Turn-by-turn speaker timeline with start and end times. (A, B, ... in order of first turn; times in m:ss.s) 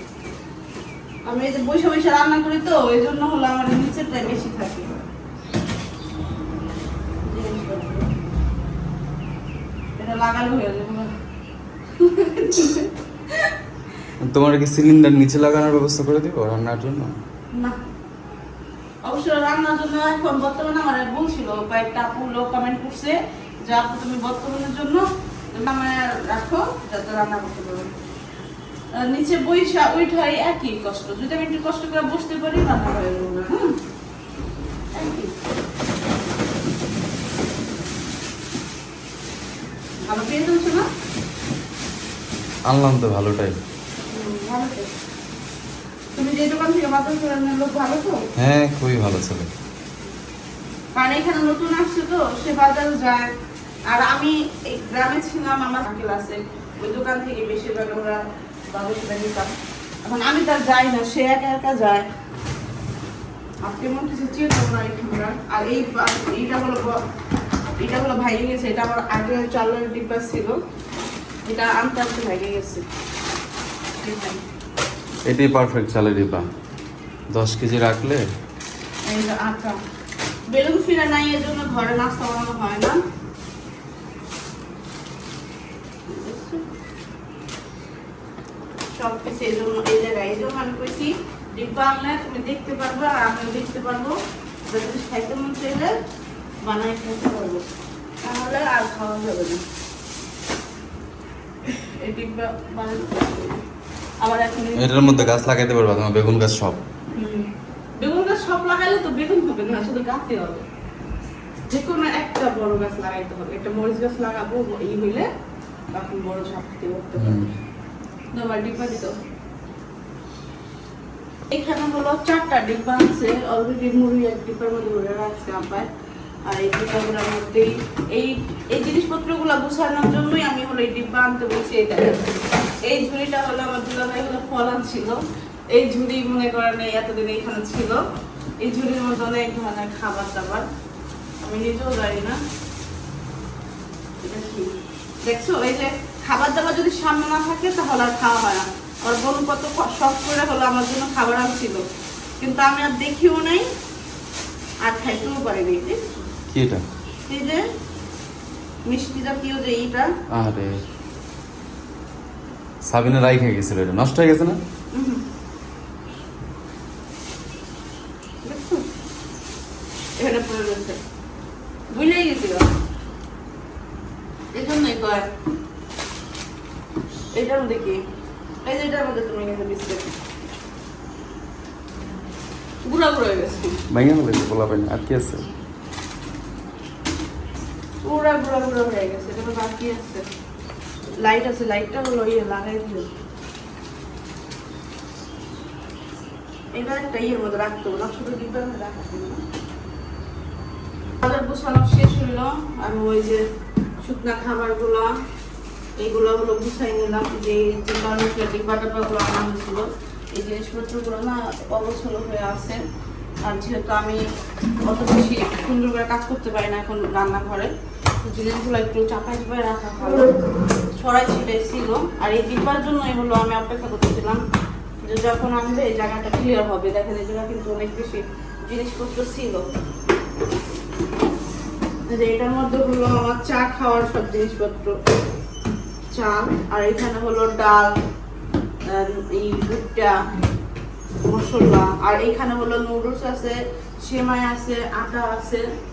0:01.2-0:05.0 A
0:07.2-0:08.1 A
0:10.0-0:11.1 A
0:12.0-0:13.5 A
0:14.2-0:17.2 B
0:17.5-0:17.8 A
0:19.0-0:27.9 A
0:28.9-0:33.7 A
0:34.9-0:35.3 A
0:40.1-0:40.9 A
0:42.6-0:43.6 B
0:44.1-0:44.9 A
0:46.1-0:48.2 A
0:48.4-0:49.5 B
0:50.9-0:53.3 A
0:53.9-0:59.5 A
1:00.0-1:02.0 A
1:03.6-1:07.0 A
1:07.8-1:10.6 A
1:11.4-1:12.8 A
1:14.0-1:14.4 A
1:15.3-1:16.5 B
1:17.3-1:18.2 B
1:19.0-1:19.8 A
1:20.5-1:23.0 A
1:26.1-1:26.6 A
1:28.9-1:34.2 A
1:34.7-1:35.9 A
1:36.6-1:37.7 A
1:38.2-1:39.6 A
1:41.7-1:43.6 A
1:44.2-1:45.4 A
1:44.8-1:46.8 B
1:47.1-1:50.6 A
1:51.7-1:55.3 A
1:55.9-1:57.4 A
1:57.2-1:57.5 B
1:58.3-1:59.1 A
2:01.5-2:05.9 A
2:06.4-2:12.3 A
2:12.8-2:18.0 A
2:18.6-2:20.6 A
2:21.4-2:22.4 A
2:24.2-2:24.7 A
2:25.2-2:31.8 A
2:32.4-2:33.7 A
2:34.8-2:36.2 A
2:36.5-2:36.8 B
2:37.3-2:37.6 A
2:38.9-2:40.1 A
2:40.3-2:40.8 B
2:42.8-2:44.6 B
2:44.9-2:45.2 A
2:48.4-2:48.8 A
2:50.2-2:51.0 A
2:51.9-2:52.7 A
2:54.5-2:55.3 A
2:57.3-2:58.0 A
2:58.6-3:00.1 A
3:02.8-3:03.8 A
3:03.9-3:05.4 B
3:08.0-3:10.2 A
3:11.2-3:13.1 A
3:16.7-3:19.4 A
3:21.2-3:23.4 A
3:24.0-3:25.1 A
3:26.0-3:32.8 A
3:33.4-3:34.2 A
3:34.8-3:37.7 A
3:38.2-3:40.3 A
3:41.0-3:44.4 A
3:45.0-3:49.7 A
3:52.1-3:55.0 A
3:56.1-3:57.9 A
3:58.9-4:00.2 A
4:01.2-4:05.6 A